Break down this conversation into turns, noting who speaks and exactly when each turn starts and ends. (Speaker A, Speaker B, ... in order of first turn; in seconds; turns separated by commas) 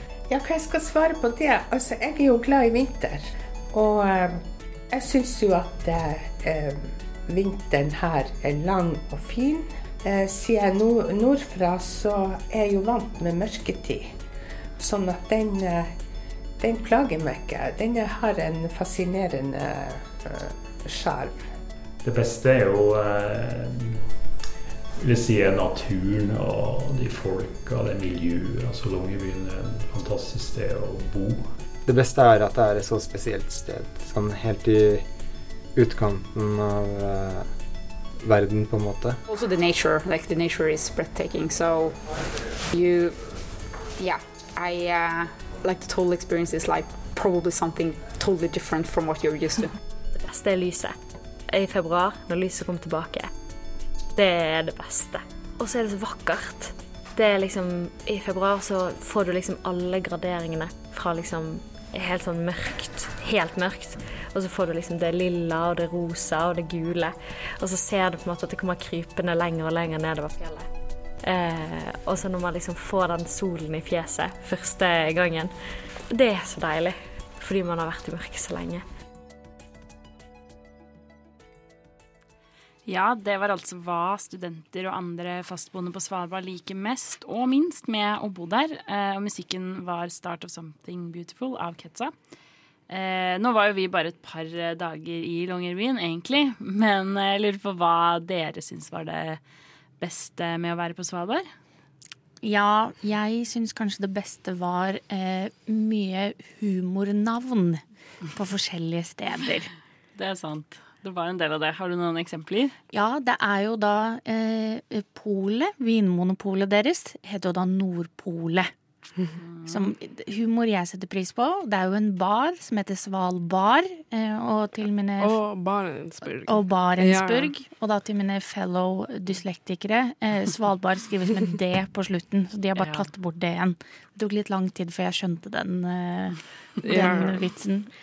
Speaker A: 0.3-14.2, Speaker A: 14.8-15.9, Speaker A: 16.6-21.5, Speaker B: 22.0-24.0, Speaker B: 25.0-31.5, Speaker C: 31.9-35.0, Speaker C: 35.8-37.5, Speaker C: 38.2-39.2, Speaker D: 39.3-41.9, Speaker D: 42.7-43.2, Speaker D: 44.0-49.7, Speaker E: 50.1-51.0, Speaker E: 51.5-53.3, Speaker E: 54.1-70.7, Speaker E: 71.2-75.5, Speaker E: 76.1-78.8, Speaker F: 82.8-92.1, Speaker F: 92.9-99.4, Speaker F: 100.0-101.5, Speaker G: 102.4-109.7, Speaker F: 110.2-112.7, Speaker G: 112.9-118.7, Speaker F: 119.5-119.8, Speaker G: 119.7-125.4, Speaker H: 125.2-127.5, Speaker G: 126.5-137.9, Speaker F: 132.8-133.1, Speaker H: 136.8-137.4